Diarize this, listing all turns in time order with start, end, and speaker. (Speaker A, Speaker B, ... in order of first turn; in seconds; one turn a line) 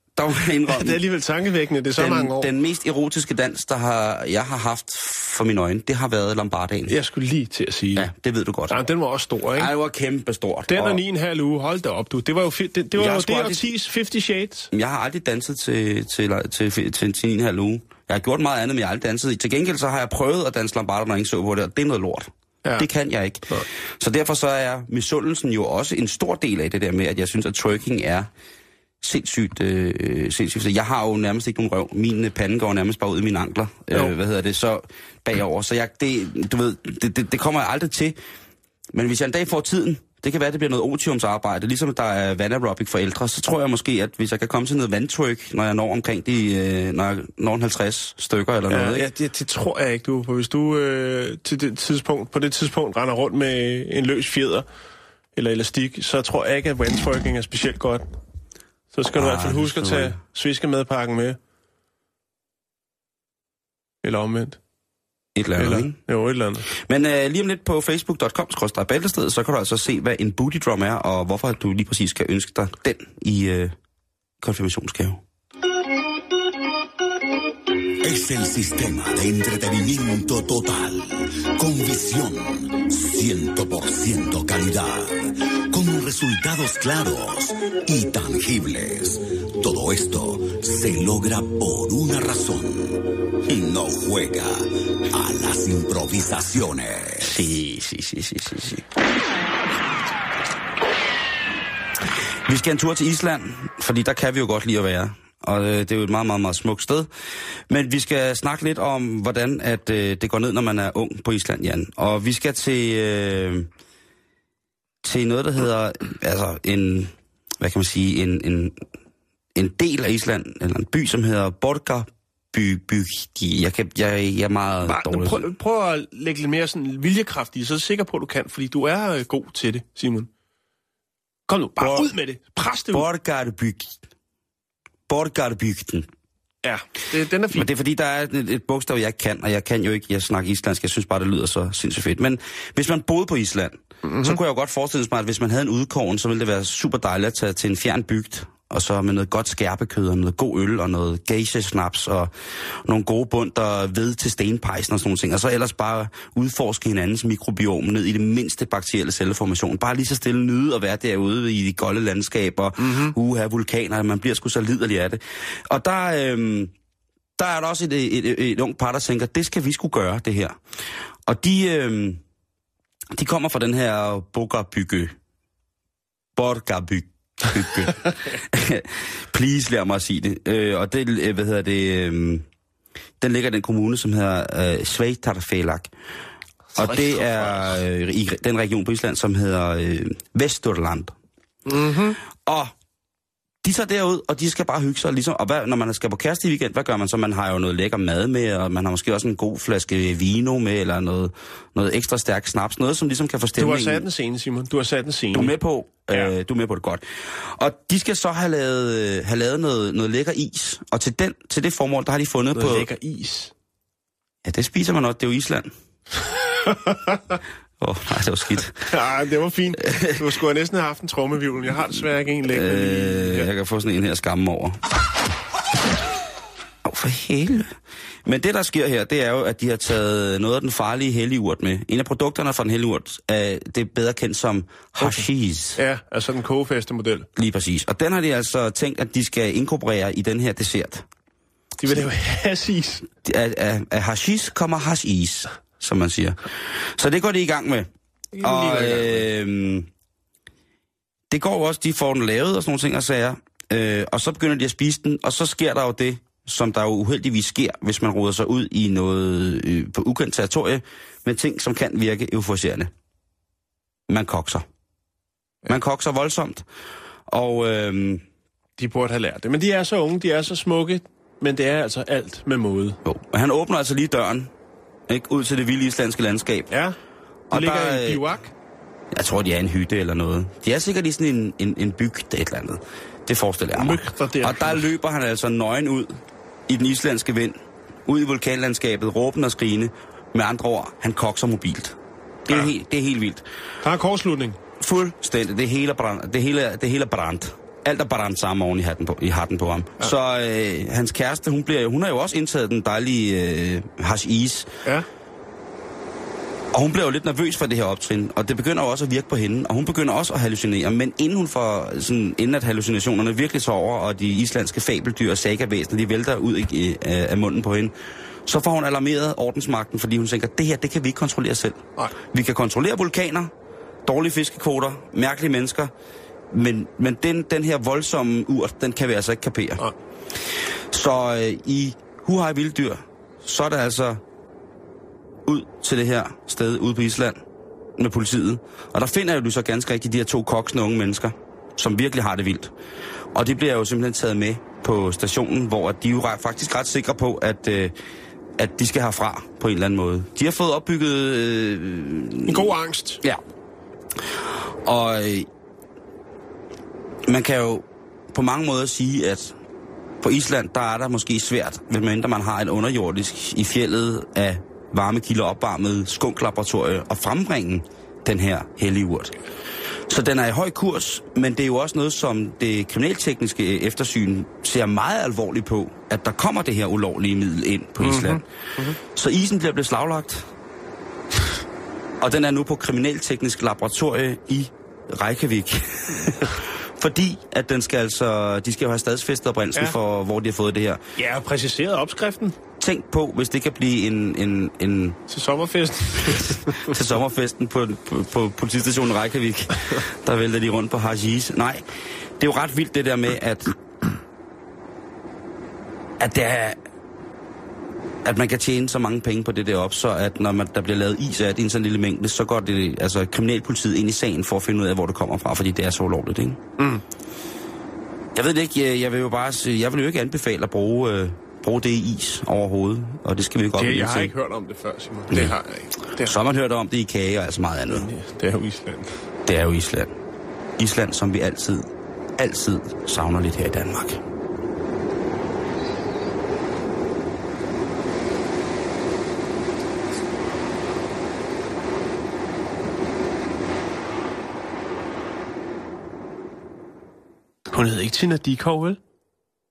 Speaker A: 0.1-1.0
Speaker B: 0.7-2.5
Speaker A: 2.0-6.9
Speaker B: 6.9-8.1
Speaker A: 8.0-8.8
Speaker B: 8.7-9.7
Speaker A: 9.5-11.0
Speaker B: 10.7-14.7
Speaker A: 12.9-13.7
Speaker A: 14.7-28.3
Speaker A: 29.0-38.2
Speaker A: 38.9-49.1
Speaker B: 48.7-54.6
Speaker B: 55.3-58.1
Speaker B: 58.9-61.4
Speaker A: 59.1-60.2
Speaker B: 64.0-64.6
Speaker A: 65.3-66.0
Speaker B: 65.6-66.7
Speaker A: 66.7-73.7
Speaker A: 74.4-75.2
Speaker C: 78.0-97.4
Speaker A: 97.2-98.8
Speaker A: 102.5-107.1
Speaker A: 107.7-113.7
Speaker A: 115.0-118.8
Speaker A: 119.5-125.5
Speaker B: 124.8-130.3
Speaker B: 131.5-133.1
Speaker A: 131.8-132.1
Speaker A: 132.9-134.0
Speaker A: 135.1-136.1
Speaker B: 136.6-137.7
Speaker A: 137.5-166.7
Speaker B: 144.0-144.4
Speaker B: 162.8-163.2
Speaker A: 167.4-170.6
Speaker A: 171.2-172.2
Speaker A: 173.1-175.1
Speaker A: 176.3-182.4
Speaker A: 183.2-185.9
Speaker B: 186.7-187.8
Speaker A: 186.7-191.1
Speaker B: 191.7-192.2
Speaker A: 192.2-192.7
Speaker A: 193.6-204.1
Speaker B: 203.6-205.5
Speaker A: 205.3-212.9
Speaker B: 212.5-213.5
Speaker A: 214.4-215.7
Speaker B: 216.6-217.4
Speaker A: 217.8-218.8
Speaker B: 218.7-223.5
Speaker A: 219.8-220.2
Speaker A: 222.4-224.8
Speaker A: 226.8-235.8
Speaker B: 235.8-237.3
Speaker A: 237.3-241.1
Speaker B: 241.8-243.1
Speaker A: 243.2-249.9
Speaker B: 248.3-249.2
Speaker A: 251.3-262.9
Speaker A: 264.1-264.6
Speaker A: 265.6-266.6
Speaker A: 267.3-268.2
Speaker B: 268.8-273.0
Speaker A: 273.0-274.5
Speaker A: 275.1-276.7
Speaker B: 276.7-276.9
Speaker A: 277.5-278.3
Speaker B: 277.5-278.5
Speaker A: 279.1-293.4
Speaker B: 283.7-284.8
Speaker B: 293.8-294.6
Speaker A: 294.8-304.7
Speaker A: 306.7-317.9
Speaker A: 318.4-323.5
Speaker A: 324.1-325.9
Speaker A: 326.5-329.9
Speaker A: 330.9-334.2
Speaker A: 335.4-337.4
Speaker A: 338.0-342.7
Speaker A: 343.3-347.9
Speaker A: 348.6-353.4
Speaker B: 352.4-353.2
Speaker A: 354.2-355.5
Speaker A: 357.2-359.6
Speaker A: 360.2-369.3
Speaker A: 370.1-380.5
Speaker B: 378.0-379.0
Speaker A: 382.2-391.0
Speaker B: 391.2-392.6
Speaker A: 392.8-395.2
Speaker B: 395.3-396.9
Speaker A: 396.2-401.8
Speaker A: 402.4-403.8
Speaker A: 406.2-406.8
Speaker A: 408.2-416.6
Speaker B: 416.8-417.0
Speaker A: 418.3-424.3
Speaker B: 423.8-426.4
Speaker A: 426.2-428.1
Speaker B: 427.9-429.2
Speaker A: 429.4-430.1
Speaker A: 430.8-434.2
Speaker B: 447.7-449.0